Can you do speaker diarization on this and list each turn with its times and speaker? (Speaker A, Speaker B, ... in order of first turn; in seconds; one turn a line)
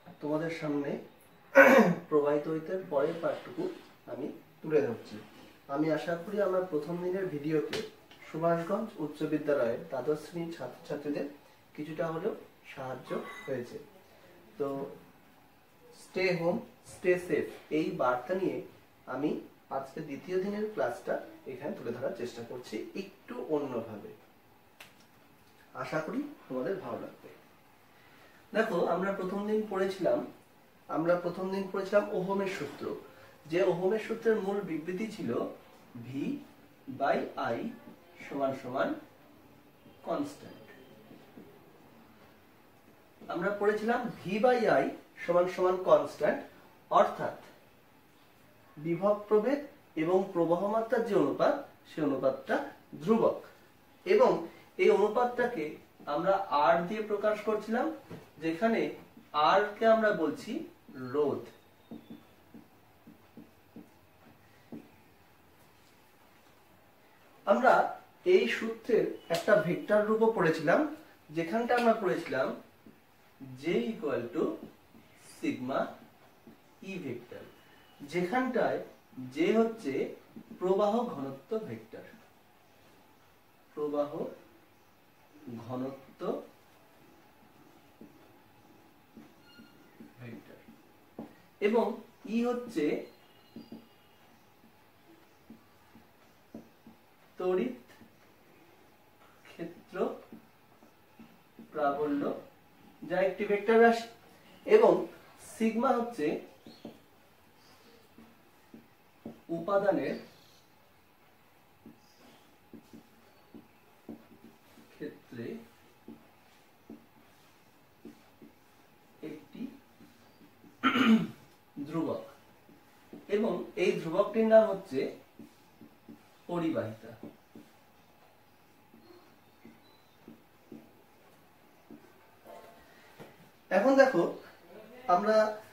Speaker A: 0.2-1.0
Speaker A: 1.5-13.8
Speaker A: 14.6-14.9
Speaker A: 16.0-24.1
Speaker A: 25.8-27.4
Speaker A: 28.5-30.2
Speaker A: 30.9-33.0
Speaker A: 33.5-35.4
Speaker A: 36.0-36.4
Speaker A: 37.0-37.7
Speaker A: 38.2-39.0
Speaker A: 40.0-40.7
Speaker A: 43.3-46.4
Speaker A: 46.9-47.5
Speaker A: 48.8-53.5
Speaker A: 54.1-57.9
Speaker A: 58.4-58.9
Speaker A: 59.4-61.5
Speaker A: 67.5-72.5
Speaker A: 73.6-74.5
Speaker A: 75.2-75.9
Speaker A: 76.8-77.5
Speaker A: 78.1-80.0
Speaker A: 80.6-82.2
Speaker A: 83.8-84.3
Speaker A: 85.6-86.3
Speaker A: 90.2-90.7
Speaker A: 91.7-92.9
Speaker A: 97.4-98.0
Speaker A: 99.5-100.1
Speaker A: 101.7-102.3
Speaker A: 103.1-104.1
Speaker A: 104.7-106.3
Speaker A: 109.5-110.2
Speaker A: 114.9-115.6
Speaker A: 119.2-119.7
Speaker A: 120.8-122.3
Speaker A: 123.3-125.0
Speaker A: 126.5-127.2
Speaker A: 133.7-134.3
Speaker A: 135.1-135.4